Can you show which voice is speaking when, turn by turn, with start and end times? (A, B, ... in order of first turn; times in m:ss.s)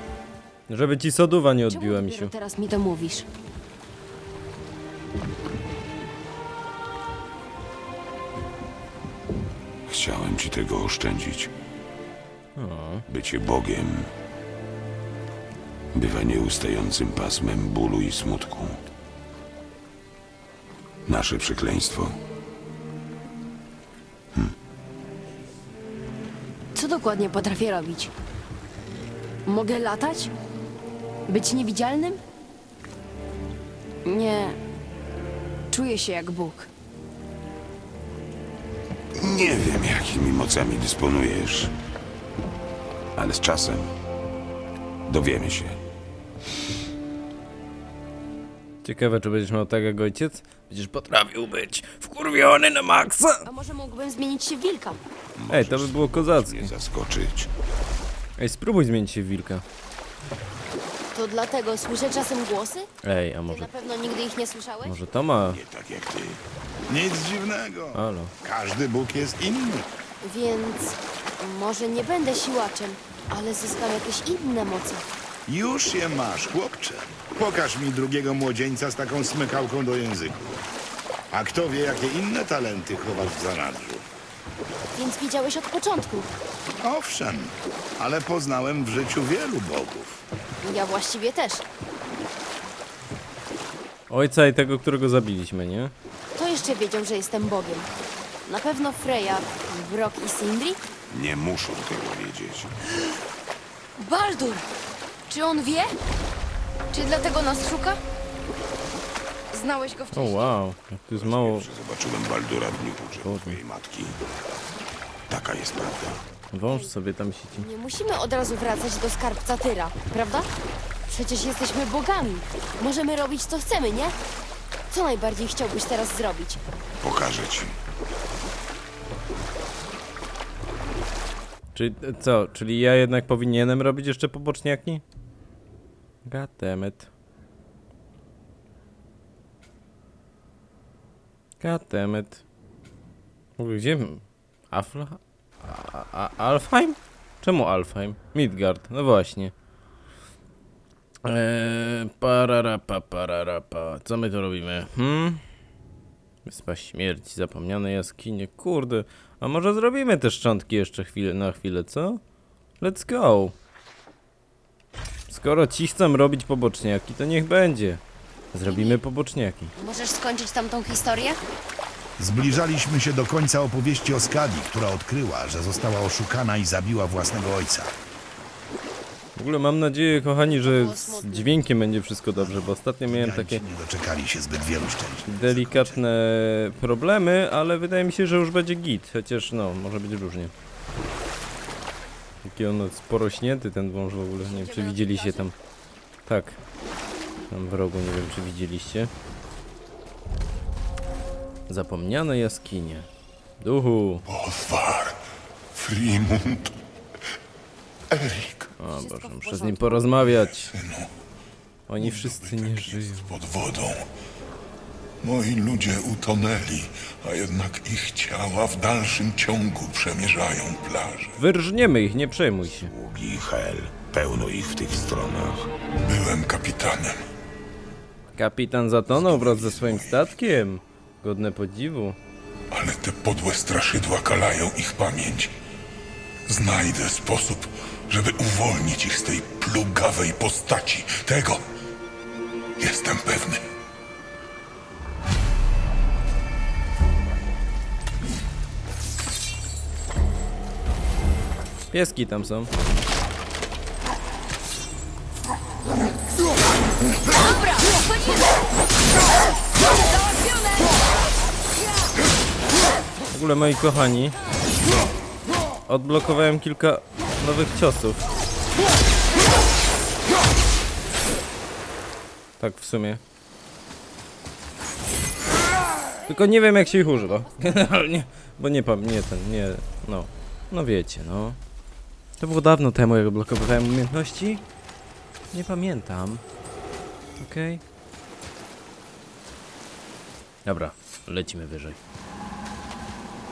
0:00.7-0:02.3 A
0:01.7-0:03.2 B
0:09.9-0:11.5 C
0:12.6-0:13.0 A
0:13.1-0:14.1 C
0:15.9-0:18.8 C
0:21.1-0:22.2 C
0:26.7-0:28.1 B
0:29.4-0:30.3 B
0:31.3-0:32.2 B
0:34.0-0:34.6 B
0:35.7-0:36.7 B
0:39.2-0:41.7 C
0:43.2-0:43.9 C
0:45.1-0:45.8 C
0:48.8-0:53.5 A
0:53.4-0:55.0 B
0:55.4-0:57.5 C
0:55.5-0:56.7 A
0:58.4-0:59.6 A
1:01.1-1:02.9 B
1:03.0-1:03.7 A
1:03.5-1:05.0 B
1:04.8-1:05.6 A
1:05.4-1:06.4 C
1:06.9-1:09.9 D
1:07.9-1:08.3 A
1:10.2-1:15.0 B
1:15.4-1:20.6 D
1:21.3-1:24.0 D
1:24.9-1:26.3 B
1:26.8-1:30.2 D
1:30.6-1:31.6 B
1:34.1-1:35.9 A
1:36.3-1:37.9 B
1:38.4-1:40.8 B
1:41.1-1:42.8 C
1:44.0-1:44.7 B
1:45.3-1:45.9 B
1:46.9-1:48.0 B
1:49.5-1:50.5 B
1:50.1-1:51.7 A
1:51.2-1:54.2 C
1:53.2-1:53.6 A
1:55.3-1:56.2 C
1:56.5-1:57.7 A
1:57.5-2:00.5 B
2:01.1-2:04.2 B
2:04.9-2:06.6 B
2:07.0-2:07.8 C
2:11.7-2:15.0 A
2:16.2-2:17.1 A
2:21.6-2:22.4 A
2:23.6-2:29.5 A
2:31.2-2:35.4 A
2:36.4-2:42.2 A
2:42.8-2:43.5 A
2:45.3-2:48.0 A
2:48.5-2:49.7 A
2:48.7-2:49.0 B
2:49.8-2:51.4 B
2:52.2-2:57.9 D
2:59.4-3:03.6 A
3:00.4-3:01.6 B
3:02.4-3:06.0 D
3:05.3-3:10.5 A
3:12.4-3:15.5 A
3:14.4-3:15.5 B
3:16.2-3:16.6 A
3:17.5-3:19.1 A
3:21.7-3:23.1 A
3:23.6-3:24.2 A
3:24.3-3:25.2 E
3:25.7-3:26.7 E
3:28.1-3:28.7 E
3:28.8-3:30.7 A
3:28.9-3:30.1 B
3:30.7-3:31.1 E
3:31.9-3:33.4 A
3:32.0-3:34.0 E
3:35.2-3:41.4 E
3:41.4-3:42.9 A
3:42.7-3:45.7 C
3:46.0-3:47.2 E
3:48.3-3:52.2 A
3:49.2-3:50.3 E
3:52.7-3:55.5 E
3:56.5-4:01.6 E
4:02.8-4:03.6 E
4:11.9-4:12.7 A
4:17.3-4:18.6 B
4:19.7-4:21.2 B
4:23.3-4:24.4 A
4:25.8-4:28.2 A
4:32.6-4:33.2 A
4:36.2-4:41.6 A
4:42.4-4:44.6 A
4:45.5-4:46.4 A
4:47.4-4:47.8 A
4:50.6-4:52.0 A